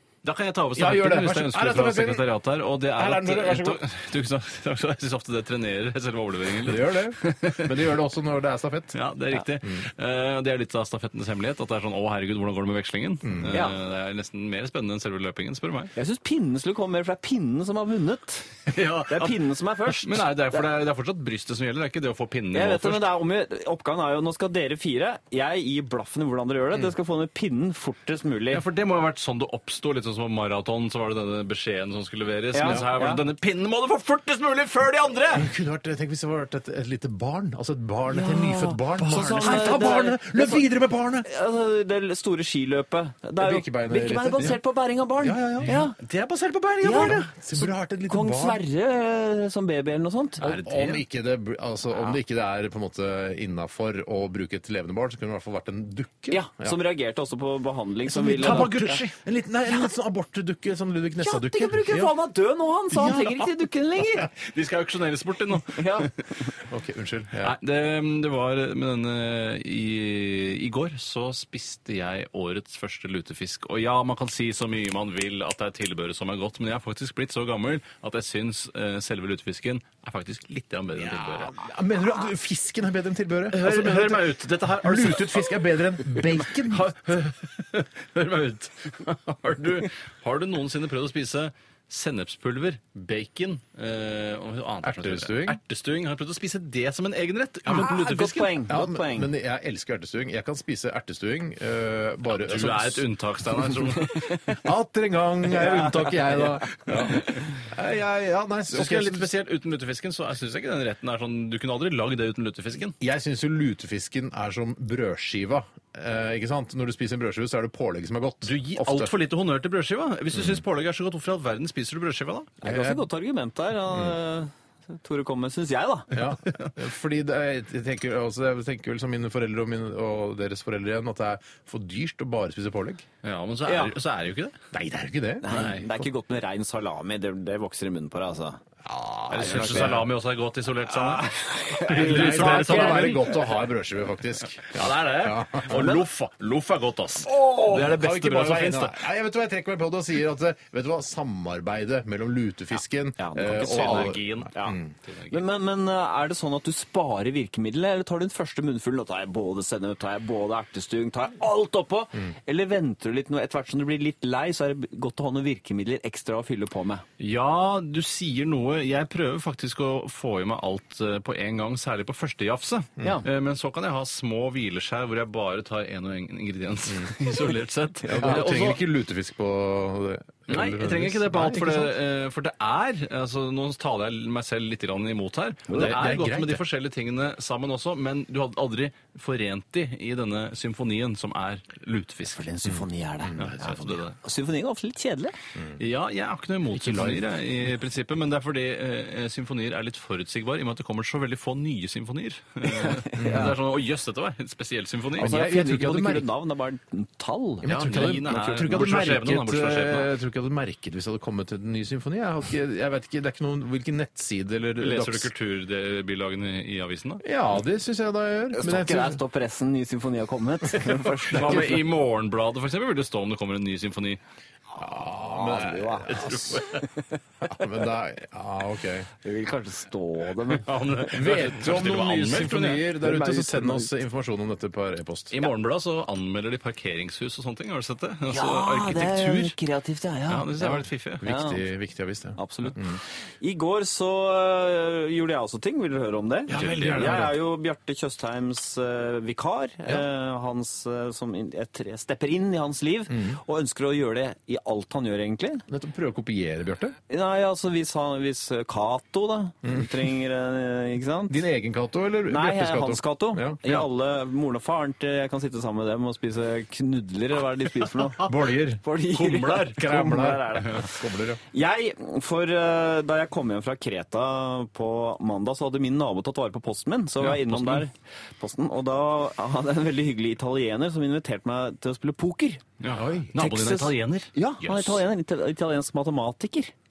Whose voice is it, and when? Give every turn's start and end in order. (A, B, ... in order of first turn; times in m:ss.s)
0:00.2-0:07.8 A
0:00.7-0:02.3 B
0:03.0-0:03.8 B
0:06.6-0:09.0 B
0:08.9-0:15.9 A
0:13.2-0:13.6 B
0:13.5-0:13.8 C
0:15.9-0:18.5 C
0:18.7-0:19.4 A
0:19.1-0:20.6 C
0:19.9-0:23.1 A
0:22.5-0:28.6 C
0:28.5-0:35.5 A
0:32.5-0:33.2 C
0:35.3-0:41.3 B
0:38.1-0:40.6 C
0:39.1-0:39.6 A
0:41.2-0:46.0 C
0:43.4-0:44.6 B
0:45.2-0:45.7 B
0:45.6-0:47.3 A
0:46.8-0:48.6 B
0:46.8-0:50.4 C
0:50.4-0:56.8 B
0:50.4-0:51.0 A
0:56.3-0:58.9 C
0:58.1-1:02.1 B
0:58.4-0:59.1 A
1:01.2-1:04.3 C
1:02.9-1:03.7 B
1:04.4-1:06.2 A
1:05.7-1:06.1 C
1:06.6-1:07.6 B
1:07.4-1:21.6 A
1:21.0-1:26.9 B
1:23.5-1:25.6 A
1:26.1-1:38.7 A
1:34.8-1:35.6 B
1:37.7-1:39.3 C
1:38.7-1:43.1 B
1:42.3-1:44.6 A
1:44.6-1:49.3 B
1:45.6-1:45.9 C
1:48.7-1:53.0 A
1:53.0-1:59.1 B
1:58.4-2:02.5 A
2:00.3-2:00.6 B
2:02.6-2:03.1 B
2:02.6-2:06.1 C
2:03.9-2:04.1 B
2:06.1-2:13.0 B
2:13.2-2:14.6 A
2:13.6-2:13.9 C
2:14.7-2:15.6 B
2:15.4-2:18.6 C
2:15.5-2:15.8 A
2:18.8-2:20.1 B
2:19.3-2:23.4 A
2:19.4-2:20.0 C
2:21.2-2:23.3 C
2:21.9-2:26.0 B
2:24.7-2:29.0 A
2:25.7-2:26.0 C
2:27.3-2:27.7 C
2:27.4-2:34.9 B
2:33.2-2:34.8 C
2:33.5-2:35.4 A
2:35.3-2:47.0 C
2:47.2-2:58.8 A
2:53.0-2:53.2 C
2:56.9-2:57.1 B
2:58.1-3:01.9 B
3:00.5-3:12.4 A
3:05.7-3:05.9 C
3:05.7-3:06.6 B
3:12.2-3:15.3 C
3:12.6-3:13.8 B
3:13.4-3:14.2 A
3:15.6-3:15.8 B
3:15.8-3:25.3 A
3:16.7-3:17.3 B
3:22.6-3:23.5 C
3:23.2-3:23.5 B
3:25.2-3:26.3 B
3:25.2-3:28.1 C
3:27.6-3:35.3 B
3:27.6-3:30.1 A
3:34.8-3:37.2 A
3:37.2-3:39.2 B
3:38.5-3:41.8 C
3:41.3-3:44.2 A
3:41.3-3:41.8 B
3:44.8-3:46.6 B
3:45.0-3:47.0 C
3:46.1-3:46.8 A
3:47.4-3:49.1 B
3:49.2-3:51.1 C
3:50.6-3:52.8 A
3:51.1-3:55.4 B
3:53.0-3:53.9 C
3:55.3-3:59.6 A
3:58.3-4:01.6 C
4:00.3-4:01.2 A
4:01.2-4:03.0 B
4:02.4-4:15.6 C
4:06.5-4:07.4 B
4:06.5-4:07.3 A
4:13.1-4:13.4 B
4:15.7-4:17.0 B
4:17.1-4:21.4 C
4:19.6-4:19.9 B
4:21.3-4:23.6 B
4:22.3-4:28.3 C
4:28.2-4:28.8 B
4:28.8-4:30.9 C
4:29.1-4:30.8 A
4:29.7-4:31.4 B
4:31.5-4:42.6 C
4:37.2-4:37.8 A
4:42.8-4:45.0 A
4:42.9-4:43.3 B
4:43.4-4:46.7 C